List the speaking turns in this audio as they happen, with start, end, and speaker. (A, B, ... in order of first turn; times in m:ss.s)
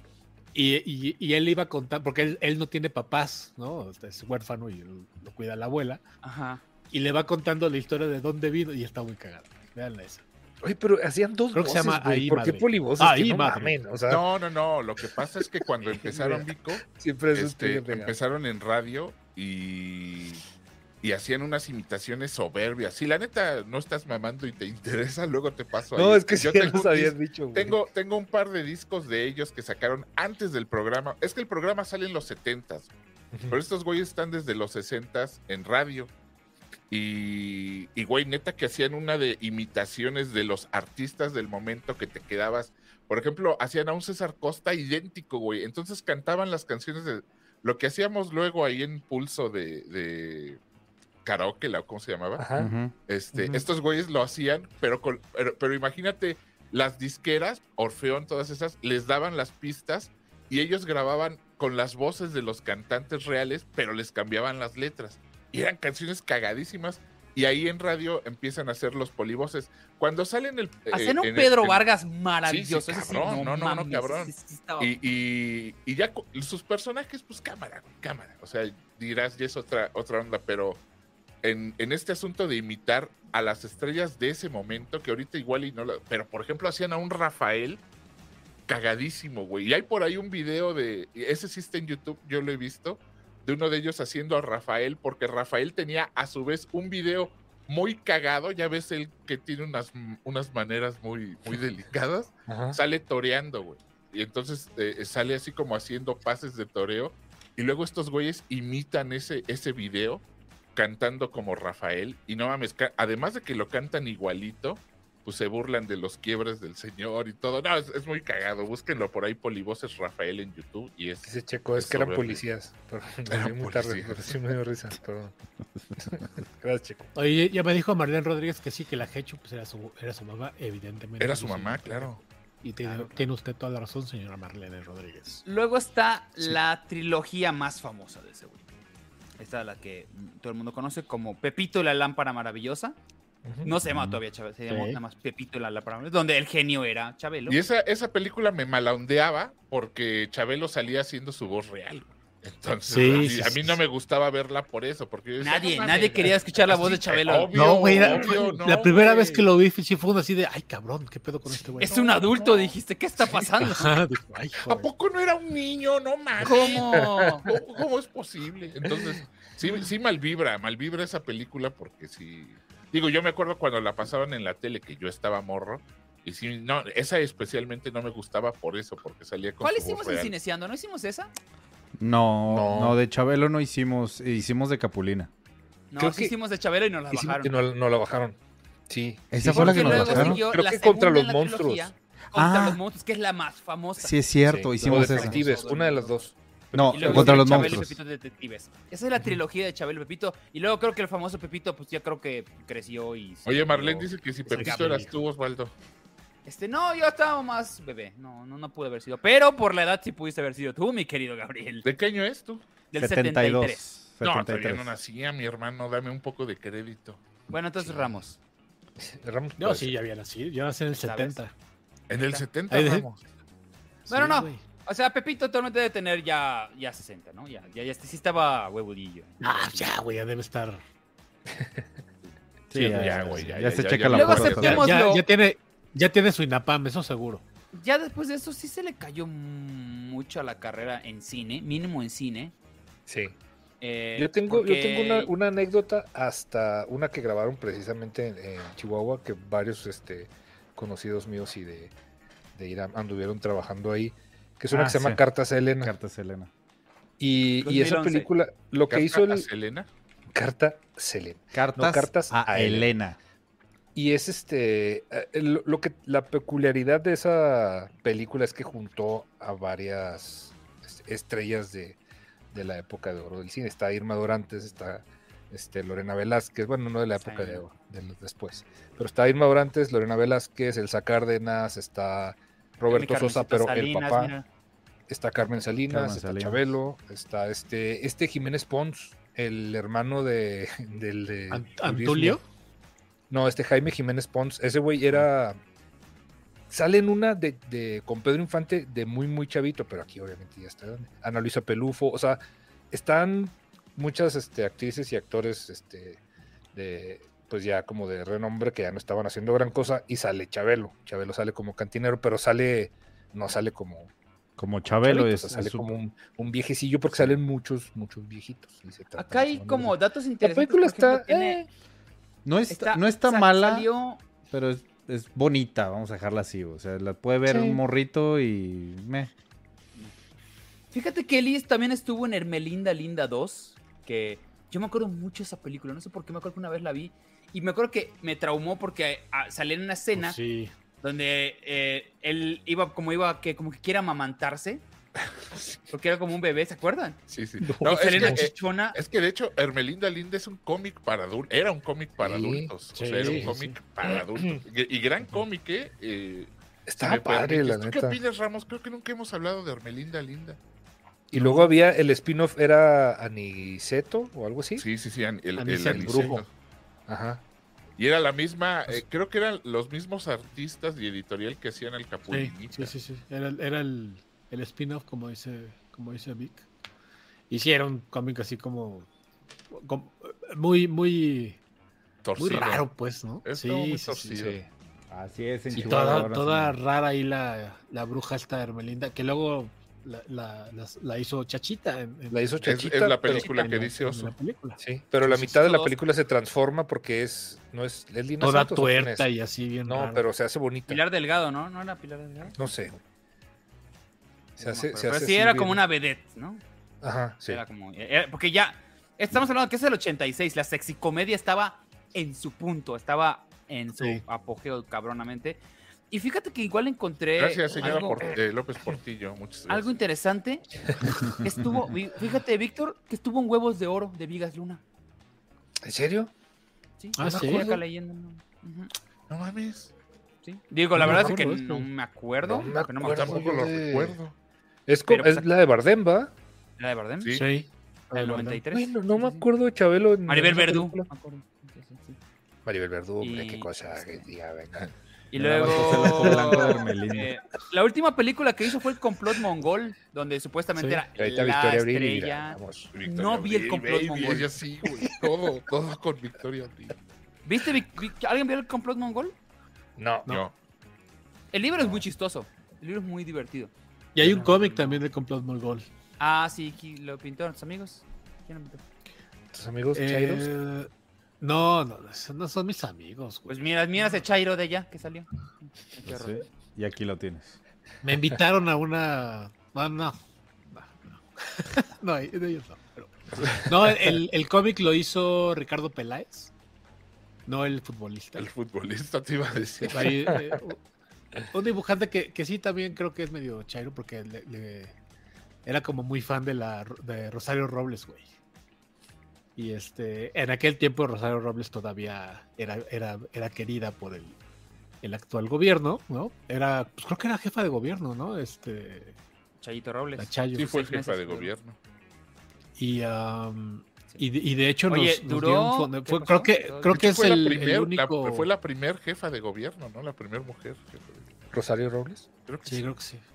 0:00.5-0:06.0 A
0:06.2-0:06.6 B
0:06.9-0:10.2 A
0:10.6-0:14.2 C
0:11.5-0:13.8 A
0:14.1-0:20.4 D
0:15.8-0:18.1 C
0:21.0-0:32.9 D
0:25.9-0:27.8 C
0:33.3-0:33.6 C
0:33.5-0:36.1 D
0:36.9-0:50.6 D
0:51.2-0:52.4 D
0:52.4-0:52.7 C
0:52.6-0:52.9 E
0:53.1-1:11.8 D
0:53.3-0:53.7 A
1:10.9-1:14.9 B
1:12.5-1:20.8 D
1:21.4-1:27.8 D
1:28.7-1:50.2 D
1:42.5-1:42.8 C
1:50.8-2:02.4 D
2:01.2-2:05.4 C
2:03.3-2:04.3 D
2:06.0-2:07.1 C
2:07.1-2:15.4 A
2:11.2-2:12.2 D
2:12.8-2:13.3 B
2:15.4-2:18.6 B
2:19.4-2:23.0 B
2:23.4-2:23.7 C
2:23.6-2:27.6 B
2:23.8-2:24.2 E
2:24.7-2:25.0 A
2:27.5-2:39.4 D
2:32.9-2:33.8 A
2:35.4-2:37.6 B
2:37.5-2:42.2 A
2:41.8-2:44.0 B
2:43.3-2:44.9 A
2:44.6-2:46.8 D
2:46.4-2:47.5 B
2:46.4-2:47.6 C
2:47.4-3:00.3 D
2:59.6-3:01.3 B
3:02.0-3:05.3 E
3:02.5-3:03.0 C
3:05.9-3:07.6 B
3:06.0-3:06.3 C
3:07.1-3:08.4 C
3:08.9-3:11.9 C
3:09.3-3:10.4 E
3:09.5-3:14.2 B
3:12.3-3:12.8 E
3:14.0-3:15.4 E
3:14.4-3:17.8 C
3:14.8-3:16.2 B
3:16.7-3:18.0 E
3:16.9-3:25.1 B
3:23.4-3:25.7 D
3:24.5-3:25.1 A
3:26.4-3:31.8 B
3:31.8-3:32.6 D
3:32.9-3:33.9 B
3:33.0-3:34.9 E
3:34.2-3:37.2 D
3:37.5-3:38.4 B
3:37.8-3:38.2 C
3:39.0-3:39.9 C
3:39.6-3:41.5 A
3:41.0-3:41.4 B
3:42.1-3:43.2 D
3:42.1-3:42.4 B
3:42.7-3:43.1 A
3:44.1-3:44.6 A
3:44.1-3:49.9 B
3:49.4-3:50.8 A
3:52.7-3:54.9 E
3:52.7-3:53.4 A
3:52.7-3:54.9 D
3:54.1-3:55.2 B
3:54.6-3:57.4 A
3:57.7-4:02.5 B
4:03.1-4:03.4 C
4:03.8-4:05.3 B
4:04.2-4:11.9 C
4:12.5-4:15.9 C
4:14.7-4:15.2 E
4:15.8-4:16.5 E
4:17.2-4:19.5 C
4:17.6-4:18.3 B
4:18.9-4:19.9 D
4:20.3-4:22.9 C
4:21.5-4:23.2 E
4:23.9-4:32.0 C
4:32.5-4:44.3 C
4:37.2-4:37.6 B
4:42.9-4:44.4 B
4:45.1-4:52.4 C
4:45.9-4:46.7 E
4:51.5-4:52.4 A
4:53.3-4:55.6 C
4:56.7-5:06.2 C
5:06.7-5:14.1 C
5:14.6-5:15.9 E
5:14.9-5:21.7 C
5:19.2-5:21.6 B
5:22.4-5:23.9 E
5:22.7-5:24.2 B
5:24.5-5:29.3 E
5:27.5-5:27.8 C
5:30.9-5:40.4 B
5:40.1-5:40.7 A
5:41.0-5:44.8 B
5:45.9-5:47.2 B
5:47.3-6:00.6 D
5:47.6-5:48.4 C
5:47.8-5:49.0 B
5:52.2-5:54.6 C
5:52.9-5:53.8 A
5:56.9-5:58.2 C
6:01.3-6:04.8 C
6:01.3-6:01.7 A
6:04.8-6:06.5 D
6:05.6-6:06.4 A
6:05.7-6:06.4 C
6:07.1-6:07.4 C
6:08.0-6:12.9 D
6:12.3-6:16.6 A
6:17.5-6:19.1 A
6:19.7-6:21.6 A
6:22.2-6:22.9 D
6:22.4-6:24.4 A
6:23.4-6:24.6 D
6:24.3-6:24.7 C
6:25.1-6:26.8 E
6:25.7-6:35.9 A
6:25.7-6:26.3 C
6:32.3-6:33.5 C
6:32.6-6:34.3 D
6:34.8-6:39.3 C
6:38.4-6:40.2 A
6:39.8-6:41.0 C
6:40.9-6:42.6 B
6:42.6-6:43.0 C
6:44.6-6:45.8 C
6:44.6-6:46.6 B
6:47.0-6:47.6 C
6:47.4-6:58.3 B
6:54.0-6:54.2 A
6:57.4-6:59.9 D
6:57.8-6:58.4 C
6:59.7-7:00.6 B
7:01.0-7:01.3 C
7:01.4-7:04.8 B
7:05.8-7:06.3 C
7:07.0-7:08.9 B
7:07.2-7:07.6 A
7:07.2-7:07.8 C
7:09.3-7:09.9 D
7:10.4-7:13.5 B
7:10.9-7:11.9 A
7:12.4-7:14.2 C
7:13.0-7:14.3 D
7:14.9-7:16.3 C
7:15.1-7:15.5 B
7:16.8-7:17.4 B
7:17.3-7:18.6 A
7:18.1-7:19.4 B
7:18.7-7:21.1 C
7:20.3-7:22.2 B
7:22.6-7:24.9 C
7:23.2-7:24.3 B
7:25.3-7:34.5 B
7:25.3-7:27.3 E
7:25.7-7:26.7 C
7:30.8-7:31.0 A
7:31.2-7:32.9 C
7:32.9-7:37.0 D
7:37.4-7:39.3 B
7:40.0-7:40.4 C
7:40.3-7:40.5 D
7:41.5-7:43.7 B
7:44.1-7:45.8 A
7:44.2-7:44.5 C
7:44.4-7:45.0 B
7:46.2-7:48.8 B
7:49.5-7:50.5 C
7:49.9-7:50.9 A
7:51.4-7:53.5 A
7:53.5-7:56.4 B
7:56.0-7:57.6 E
7:58.0-8:00.2 A
8:00.7-8:06.5 A
8:07.4-8:08.5 A
8:08.4-8:10.3 D
8:09.9-8:10.8 A
8:11.5-8:14.9 A
8:15.6-8:18.3 A
8:19.6-8:24.4 A
8:25.0-8:29.2 A
8:29.6-8:31.5 B
8:30.2-8:30.7 A
8:30.5-8:31.8 D
8:32.8-8:38.5 A
8:34.9-8:37.3 B
8:36.9-8:41.5 D
8:41.5-8:42.2 C
8:42.5-8:42.9 D
8:42.6-8:43.2 A